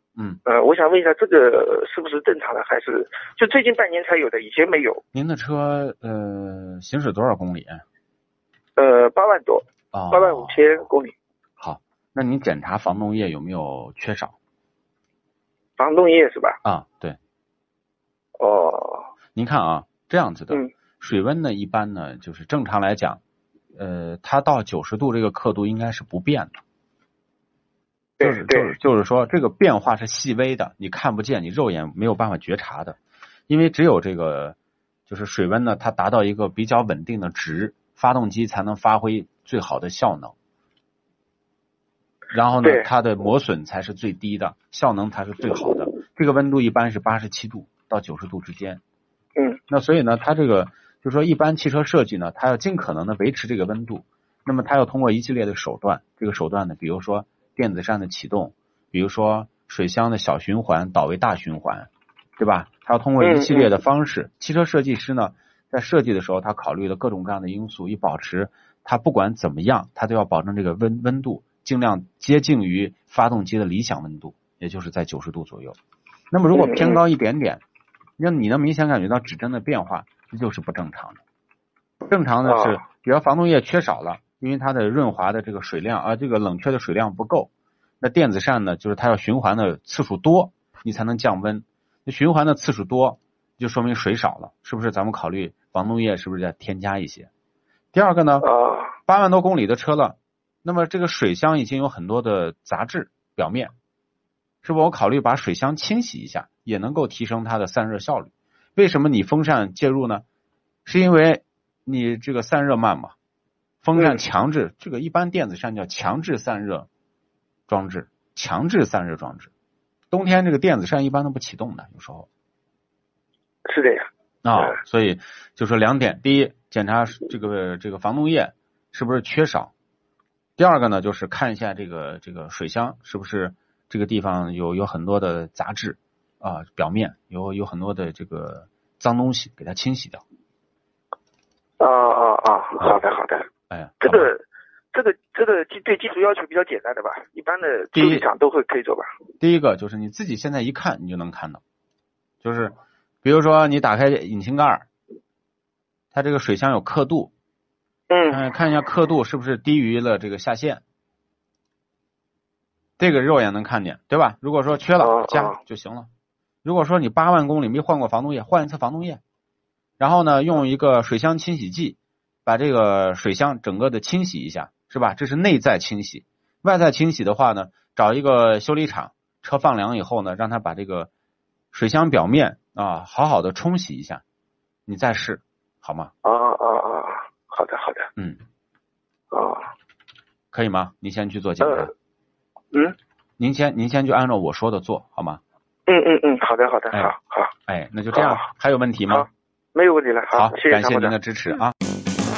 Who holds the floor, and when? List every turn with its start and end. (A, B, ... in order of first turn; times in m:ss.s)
0:00.4-0:05.0 A
0:05.1-0:07.8 B
0:08.8-0:11.1 A
0:09.9-0:10.9 B
0:11.6-0:14.3 B
0:15.8-0:16.6 A
0:16.6-0:17.2 B
0:18.4-0:19.1 A
0:19.4-0:23.2 B
0:23.7-0:26.6 B
0:28.2-0:28.7 A
0:28.2-0:34.6 B
0:35.1-0:40.3 B
0:42.3-0:48.8 B
0:42.6-0:42.9 A
0:49.7-1:15.8 B
1:03.2-1:03.7 A
1:16.3-1:17.6 B
1:16.5-1:17.0 A
1:18.2-1:21.2 B
1:22.0-1:37.3 B
1:22.4-1:22.8 A
1:37.9-1:38.5 B
1:38.4-1:38.9 A
1:39.0-1:43.7 B
1:44.6-1:50.2 B
1:50.8-1:53.1 B
1:53.8-1:56.9 B
1:57.7-1:59.5 B
2:00.1-2:02.3 B
2:03.7-2:04.1 A
2:04.4-2:09.7 B
2:10.6-2:20.2 B
2:21.8-2:23.5 A
2:23.7-2:24.3 B
2:24.0-2:29.1 A
2:27.9-2:28.2 B
2:29.4-2:31.6 B
2:32.4-2:34.8 B
2:36.1-2:37.3 B
2:38.1-2:38.4 A
2:38.3-2:40.8 B
2:43.0-2:46.1 B
2:45.0-2:45.6 A
2:46.6-2:49.2 B
2:50.0-3:01.1 B
3:01.7-3:04.2 B
3:04.9-3:06.1 B
3:06.2-3:08.1 A
3:08.2-3:08.4 B
3:09.3-3:09.7 A
3:10.5-3:11.9 B
3:11.6-3:11.9 A
3:13.4-3:15.4 B
3:15.9-3:17.5 A
3:17.7-3:19.3 B
3:18.1-3:18.4 A
3:19.1-3:21.2 A
3:20.3-3:21.7 B